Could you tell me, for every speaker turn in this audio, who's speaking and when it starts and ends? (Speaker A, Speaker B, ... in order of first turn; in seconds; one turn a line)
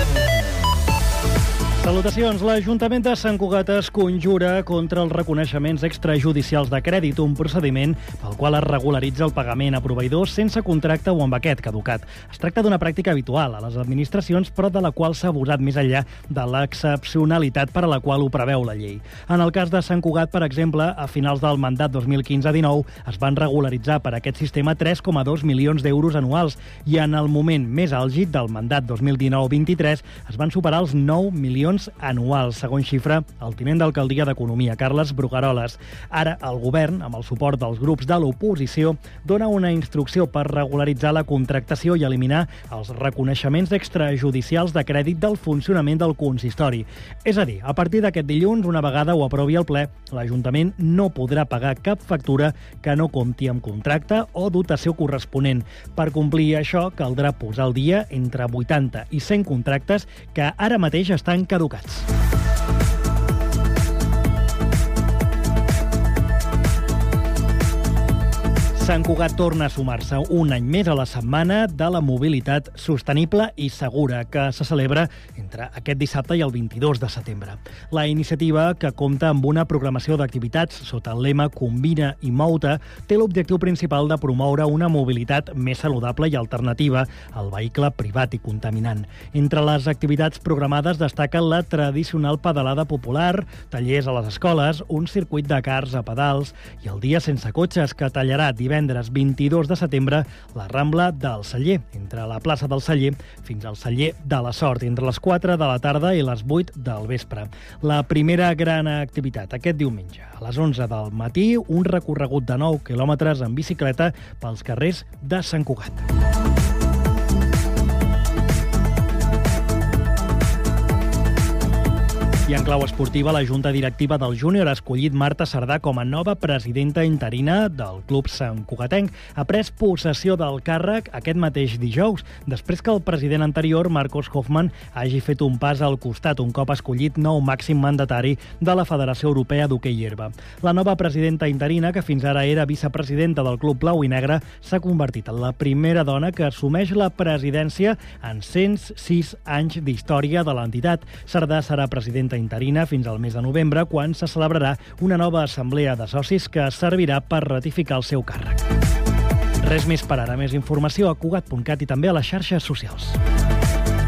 Speaker A: 1.8-62.0
Speaker A: 68.8-116.0
Speaker A: 122.5-158.6
Speaker A: 159.6-163.2